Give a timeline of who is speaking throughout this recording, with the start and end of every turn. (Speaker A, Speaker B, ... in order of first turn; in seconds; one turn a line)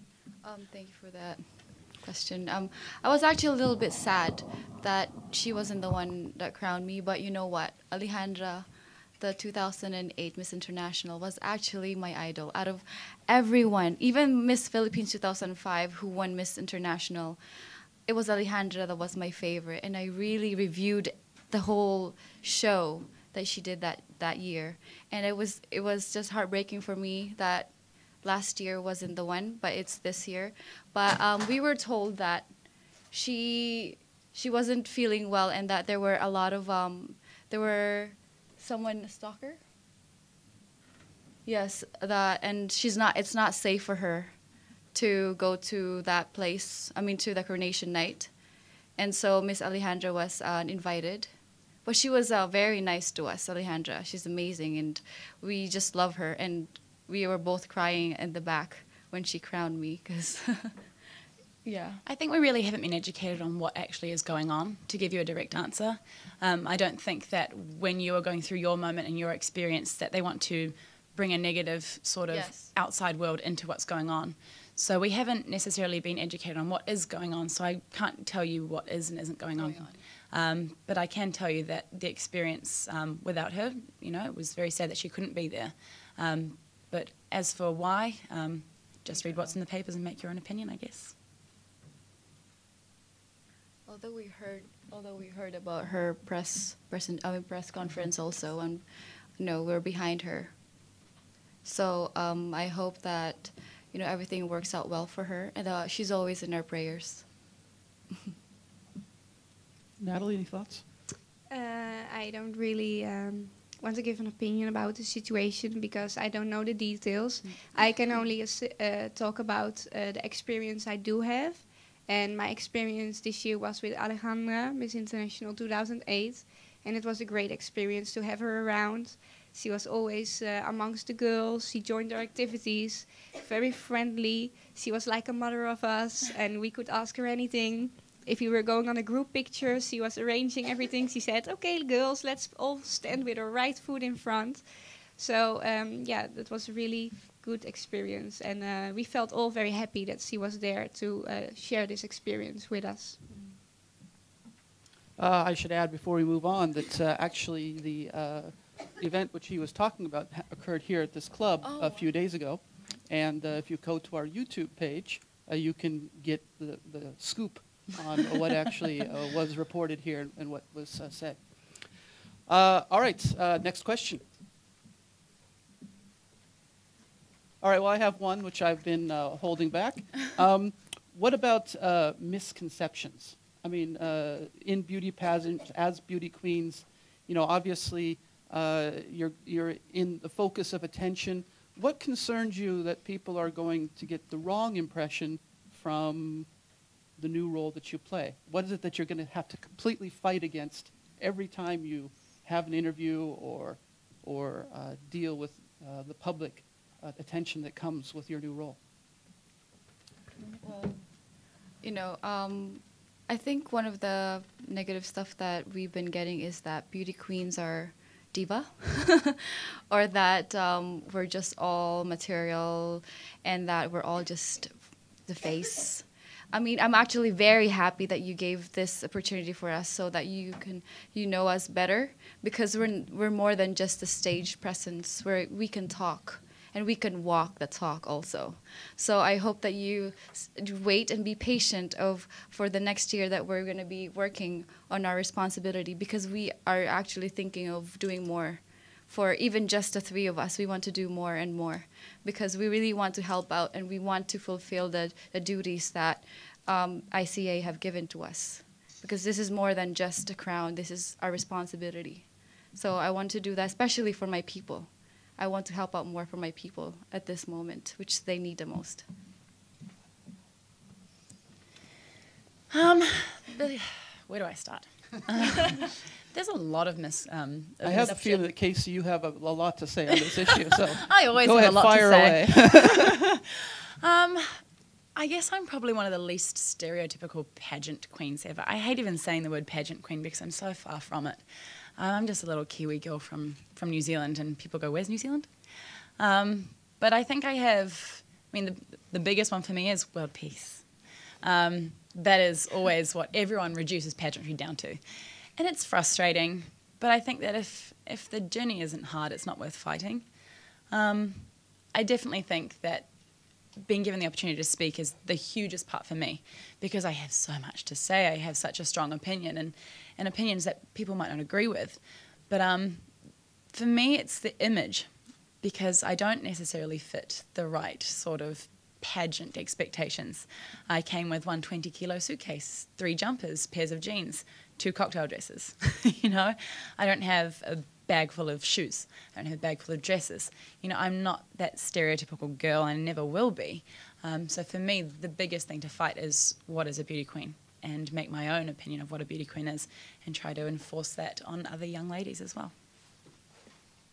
Speaker A: 0.4-8.7
Speaker A: 9.2-17.4
Speaker A: 18.1-27.7
Speaker A: 28.2-32.5
Speaker A: 33.1-39.6
Speaker A: 41.5-44.4
Speaker A: 44.9-48.3
Speaker A: 49.0-51.3
Speaker A: 51.9-60.8
Speaker A: 61.6-62.0
Speaker B: 62.1-91.2
Speaker A: 72.3-72.7
Speaker A: 79.5-80.0
Speaker A: 89.2-89.5
Speaker A: 93.9-98.8
Speaker A: 99.4-100.5
Speaker A: 101.6-107.3
Speaker C: 110.0-110.8
Speaker D: 111.5-153.2
Speaker A: 153.3-153.6
Speaker C: 155.2-174.3
Speaker A: 161.6-162.1
Speaker C: 177.6-196.6
Speaker C: 197.2-208.8
Speaker A: 210.6-269.1
Speaker B: 272.7-278.5
Speaker C: 277.8-283.1
Speaker B: 281.1-283.4
Speaker B: 284.0-313.1
Speaker B: 313.8-352.7